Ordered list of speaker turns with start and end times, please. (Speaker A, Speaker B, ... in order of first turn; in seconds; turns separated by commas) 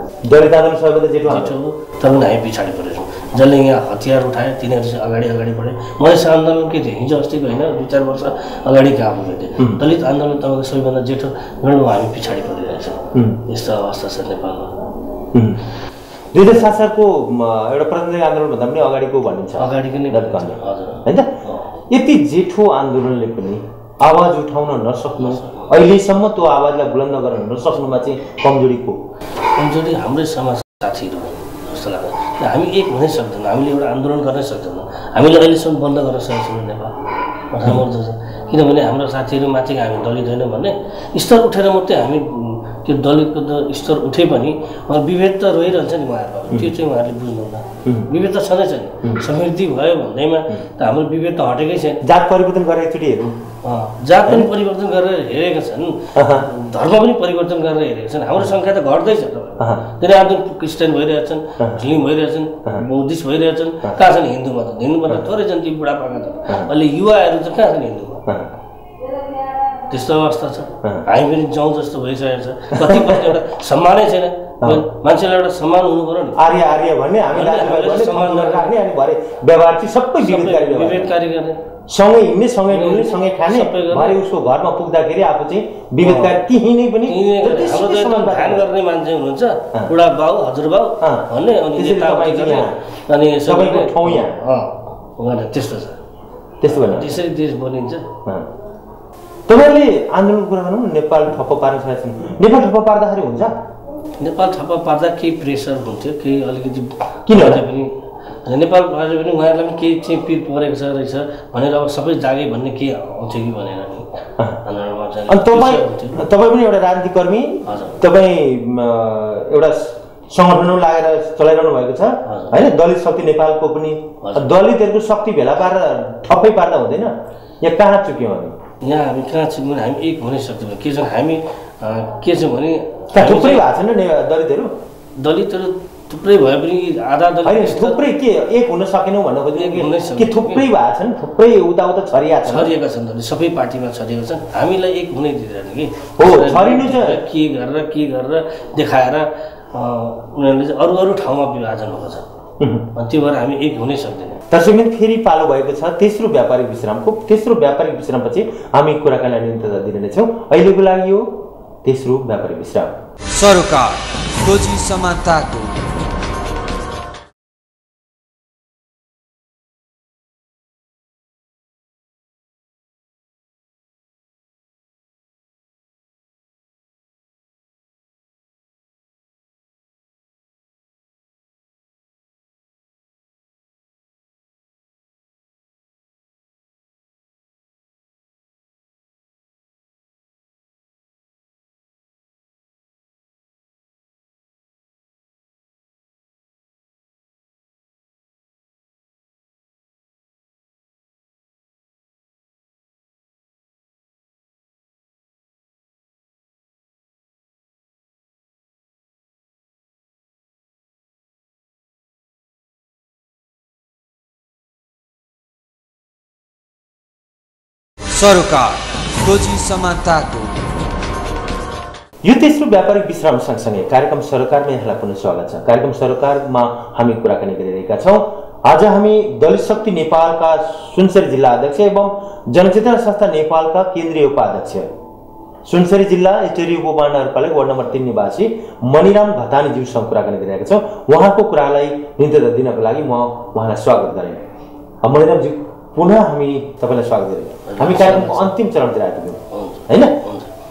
Speaker A: 0.2-1.6, Speaker B: 1.3-14.8, Speaker A: 13.1-13.4, Speaker A: 15.3-15.6, Speaker A: 16.3-21.3, Speaker B: 19.6-21.8, Speaker A: 21.9-29.0, Speaker B: 25.2-25.7, Speaker B: 29.5-37.0, Speaker B: 37.5-52.0, Speaker A: 52.0-53.5, Speaker B: 53.6-68.3, Speaker A: 56.2-56.5, Speaker A: 68.3-68.5, Speaker B: 69.9-76.4, Speaker A: 72.8-73.3, Speaker A: 76.4-81.1, Speaker B: 77.3-78.7, Speaker B: 80.2-81.6, Speaker A: 81.9-88.7, Speaker B: 82.7-84.2, Speaker B: 86.0-86.3, Speaker B: 87.1-96.0, Speaker A: 91.0-92.8, Speaker A: 93.5-94.4, Speaker A: 96.6-97.2, Speaker B: 96.7-98.1, Speaker A: 99.5-103.5, Speaker B: 104.2-107.9, Speaker A: 107.3-107.6, Speaker B: 108.5-114.1, Speaker B: 114.6-116.2, Speaker A: 115.3-128.6, Speaker B: 117.6-118.0, Speaker B: 122.2-122.7, Speaker B: 124.2-124.5, Speaker B: 128.8-133.7, Speaker A: 133.1-134.8, Speaker B: 135.2-138.0, Speaker A: 137.4-142.7, Speaker B: 139.5-140.7, Speaker B: 142.4-152.3, Speaker A: 146.2-147.2, Speaker A: 152.6-152.9, Speaker B: 152.9-154.4, Speaker A: 154.5-163.0, Speaker C: 163.3-165.8, Speaker C: 218.1-220.6, Speaker A: 222.2-234.9, Speaker A: 235.7-244.4, Speaker A: 245.0-250.2, Speaker B: 247.7-248.5, Speaker B: 249.5-250.5